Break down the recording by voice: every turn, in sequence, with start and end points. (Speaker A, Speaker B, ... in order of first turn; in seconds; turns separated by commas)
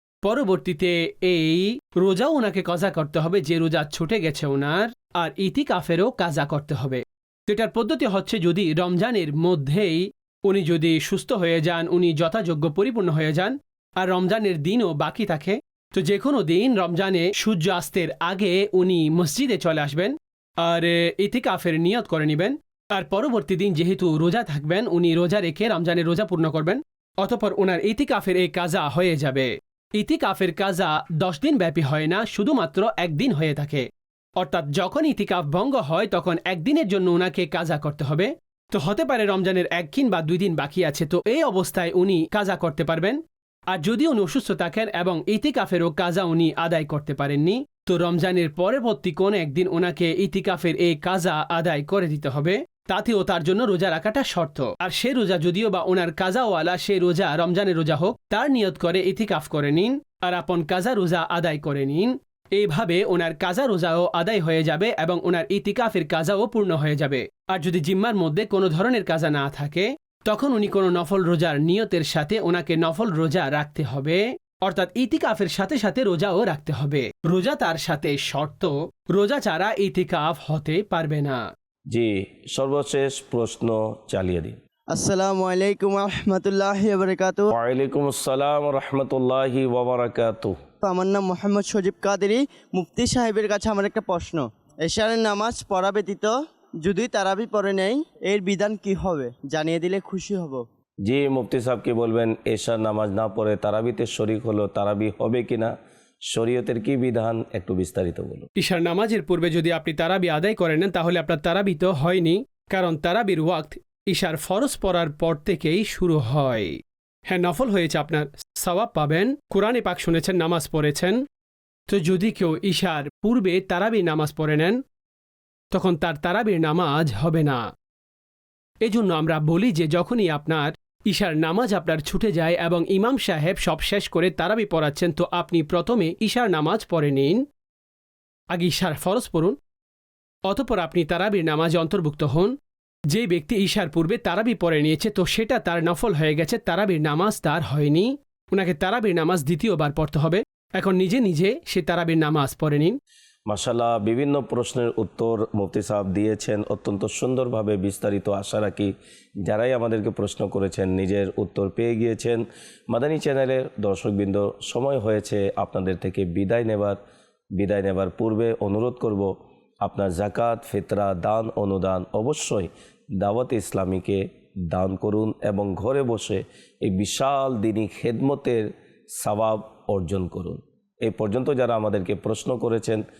Speaker A: 0.2-33.9, Speaker A: 34.4-43.2, Speaker A: 43.7-81.4, Speaker B: 81.9-84.6, Speaker C: 84.9-87.5, Speaker B: 87.5-90.5, Speaker C: 90.8-100.6, Speaker B: 101.0-105.7, Speaker B: 106.3-108.5, Speaker A: 108.6-116.8, Speaker A: 117.3-121.2, Speaker A: 121.9-124.8, Speaker A: 125.7-127.7, Speaker A: 128.8-137.4, Speaker A: 138.5-139.6, Speaker A: 140.5-142.5, Speaker A: 143.1-153.0, Speaker B: 153.5-167.0, Speaker B: 167.6-183.0